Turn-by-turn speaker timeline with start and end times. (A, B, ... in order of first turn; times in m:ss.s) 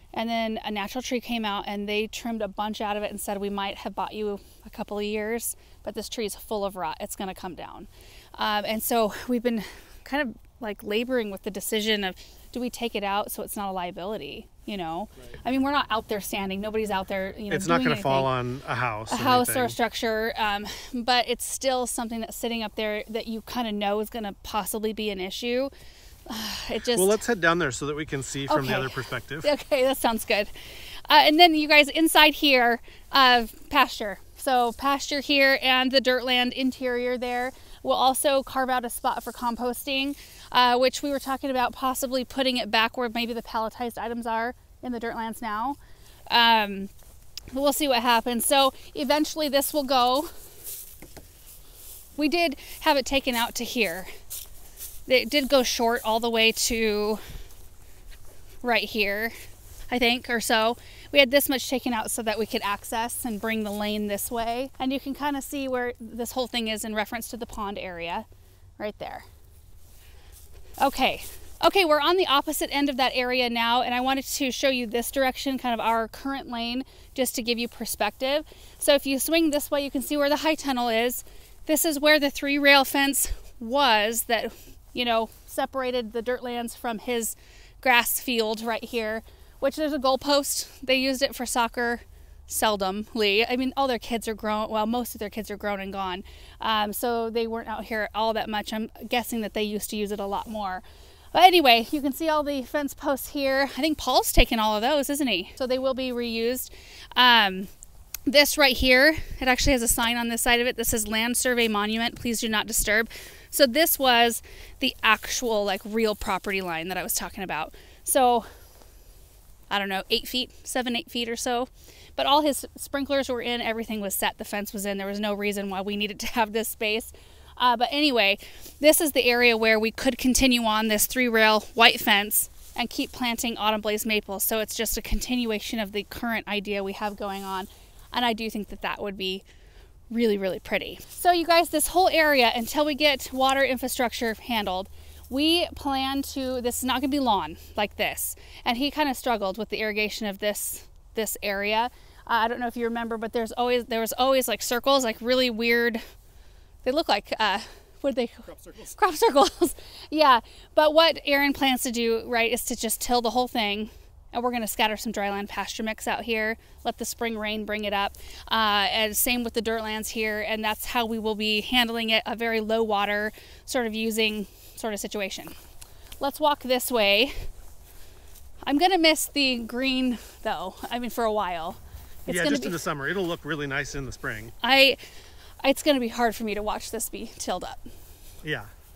0:00.1-0:18.3 A
0:17.5-0:19.8 B
0:19.1-0:25.7 A
0:26.3-0:27.2 A
0:26.9-0:29.5 B
0:28.5-0:30.5 A
0:31.1-0:45.8 A
0:46.3-0:46.9 A
0:47.5-0:50.3 A
0:52.2-0:54.1 A
0:55.1-0:57.2 A
0:58.6-0:59.4 A
0:59.9-1:08.2 A
1:08.8-1:09.3 A
1:10.8-1:47.7 A
1:48.3-1:58.5 A
1:59.7-2:19.4 A
2:20.1-2:36.0 A
2:36.8-2:55.5 A
2:56.2-2:57.5 A
2:58.7-3:02.8 A
3:02.3-3:04.5 B
3:04.6-3:05.0 A
3:05.6-3:07.9 A
3:08.4-3:08.7 B